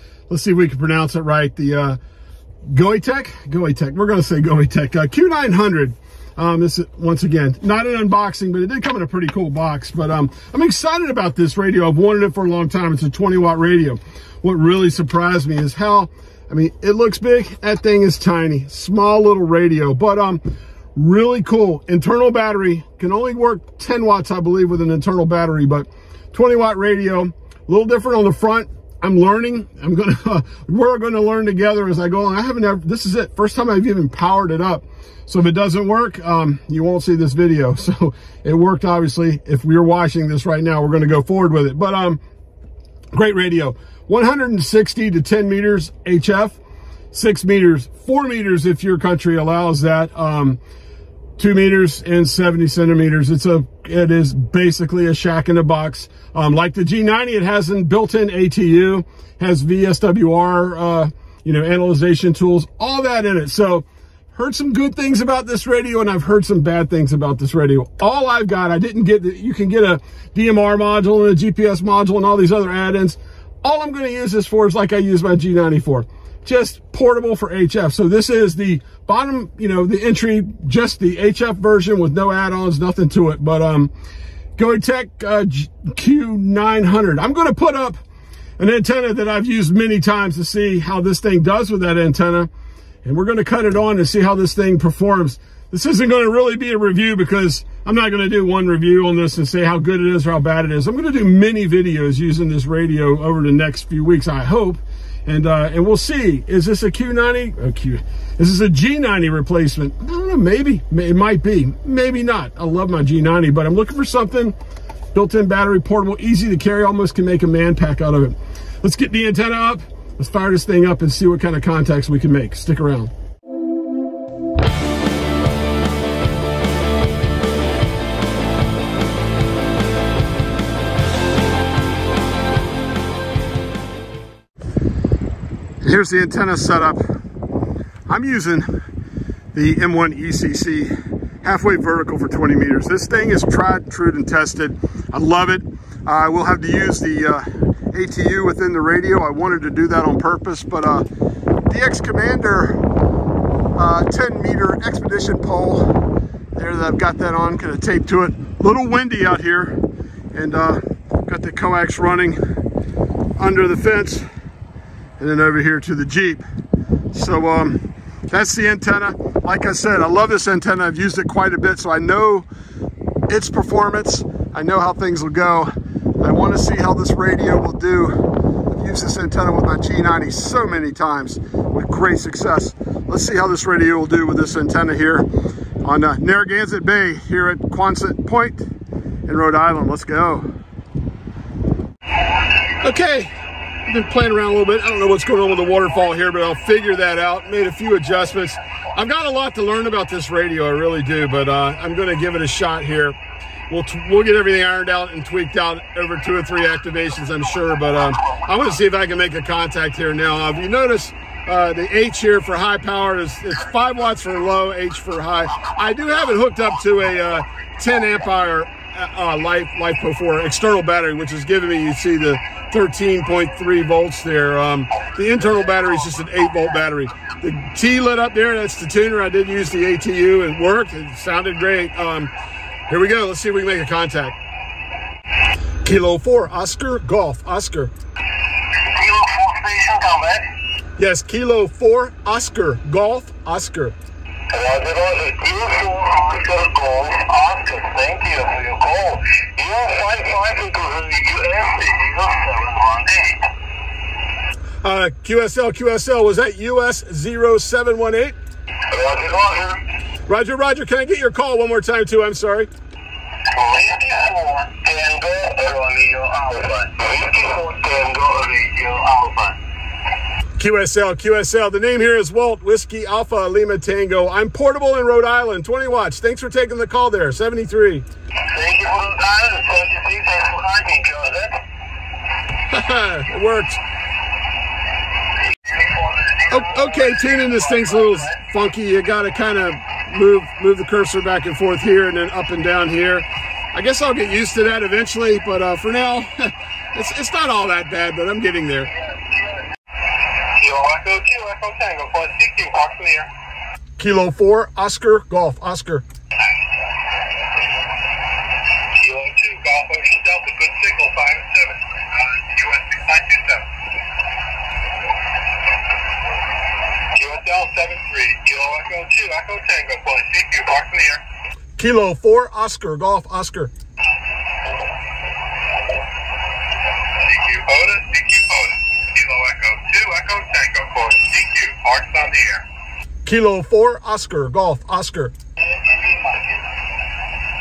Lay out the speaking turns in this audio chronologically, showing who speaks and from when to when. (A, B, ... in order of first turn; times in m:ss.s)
0:00.3-0:02.0 A
0:02.6-0:20.4 A
0:20.9-0:42.2 A
0:43.1-0:46.6 A
0:47.1-0:50.6 A
0:51.4-1:23.9 A
1:24.6-1:28.0 A
1:28.6-1:32.5 A
1:33.0-1:54.5 A
1:55.1-2:03.1 A
2:15.8-2:17.1 A
2:18.1-2:18.8 A
2:19.5-2:31.1 A
2:31.6-2:32.9 A
2:33.7-2:39.8 A
2:40.3-2:42.4 A
2:43.4-2:44.2 A
2:45.2-2:46.4 A
2:47.1-2:52.5 A
2:53.3-3:05.3 A
3:05.8-3:08.7 A
3:09.2-3:10.5 A
3:12.8-3:13.3 A
3:13.8-3:23.2 A
3:23.7-3:52.3 A
3:52.9-3:54.4 A
3:55.8-3:57.9 A
3:58.7-4:00.5 B
4:01.0-4:04.0 A
4:04.5-4:13.5 B
4:14.8-4:18.4 A
4:18.9-4:19.8 B
4:20.3-4:22.7 A
4:23.4-4:29.6 B
4:30.6-4:38.0 A
4:38.5-4:41.6 B
4:42.7-4:43.8 A
4:45.6-4:48.2 B
4:46.5-4:58.9 A
4:59.2-4:59.5 B
5:00.5-5:03.3 B
5:04.0-5:06.0 A
5:08.9-5:13.7 B
5:17.1-5:21.2 B
5:21.8-5:23.7 A
5:27.1-5:32.6 B
5:33.2-5:35.3 A
5:35.6-5:36.6 B